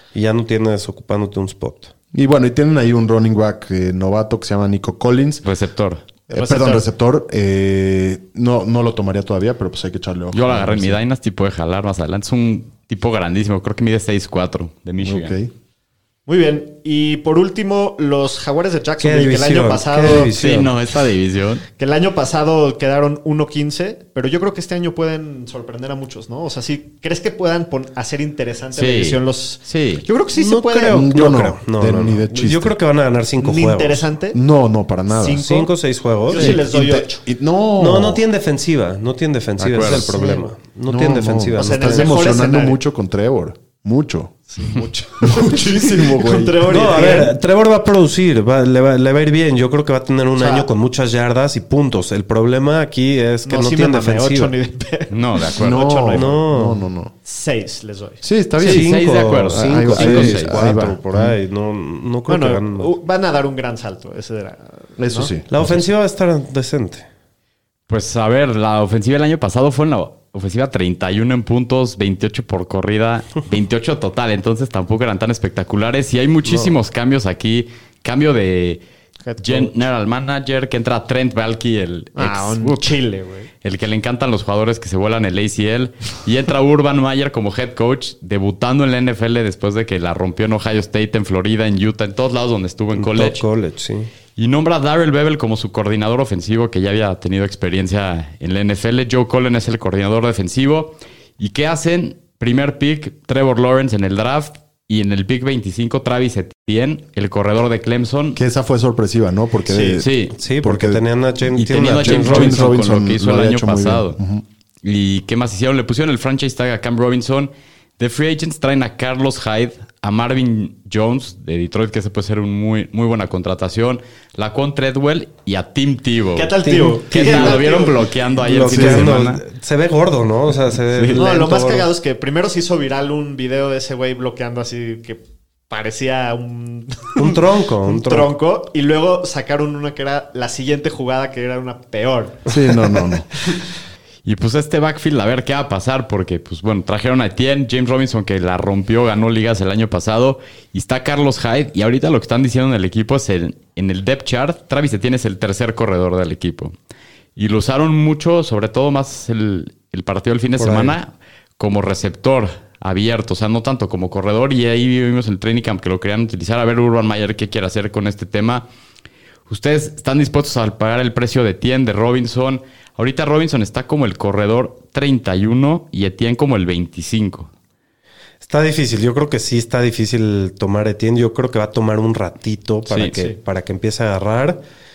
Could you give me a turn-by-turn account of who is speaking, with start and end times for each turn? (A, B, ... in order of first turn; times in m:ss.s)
0:00.1-0:01.9 A
0:02.1-0:05.4 B
0:05.4-0:06.0 C
0:06.3-0:06.9 D
0:06.3-0:11.0 B
0:10.3-0:15.4 C
0:15.0-0:15.5 B
0:16.2-0:20.3 D
0:19.0-0:20.8 A
0:20.0-0:21.6 C
0:21.8-0:31.1 D
0:28.7-0:30.0 C
0:30.3-0:34.1 A
0:30.9-0:32.8 B
0:33.4-0:34.4 D
0:34.3-0:35.5 B
0:35.1-0:35.7 D
0:35.3-0:36.6 A
0:36.3-0:37.2 D
0:36.3-0:38.2 B
0:37.8-0:42.2 A
0:39.6-0:40.2 C
0:40.9-0:44.4 B
0:41.5-0:42.8 D
0:44.5-0:47.4 D
0:45.2-0:47.0 B
0:46.6-0:54.5 A
0:50.4-0:50.7 D
0:53.4-0:56.4 D
0:55.1-0:55.8 C
0:55.6-0:57.1 B
0:56.1-0:56.8 A
0:57.2-0:58.2 D
0:58.2-1:01.4 B
0:58.6-1:00.6 C
0:58.6-1:02.9 A
1:02.3-1:05.3 D
1:05.0-1:05.9 B
1:05.5-1:07.1 A
1:07.9-1:18.8 C
1:16.4-1:16.7 A
1:19.2-1:19.7 D
1:19.4-1:23.0 C
1:22.2-1:23.5 D
1:23.6-1:33.4 C
1:32.9-1:34.1 A
1:34.4-1:48.4 C
1:48.4-1:50.1 B
1:49.6-1:50.0 D
1:50.0-1:50.3 C
1:50.3-1:52.8 A
1:50.6-1:51.0 B
1:51.5-1:54.2 C
1:52.0-1:54.4 B
1:54.8-2:06.5 C
2:06.4-2:08.1 D
2:06.6-2:07.8 A
2:07.1-2:09.4 C
2:08.3-2:11.9 A
2:08.7-2:09.2 B
2:10.9-2:11.2 C
2:11.2-2:22.5 D
2:17.2-2:18.3 A
2:22.5-2:23.3 B
2:24.2-2:36.7 C
2:37.4-2:48.6 C
2:40.6-2:41.0 A
2:49.5-2:57.5 C
2:58.4-3:04.6 A
3:02.9-3:03.2 C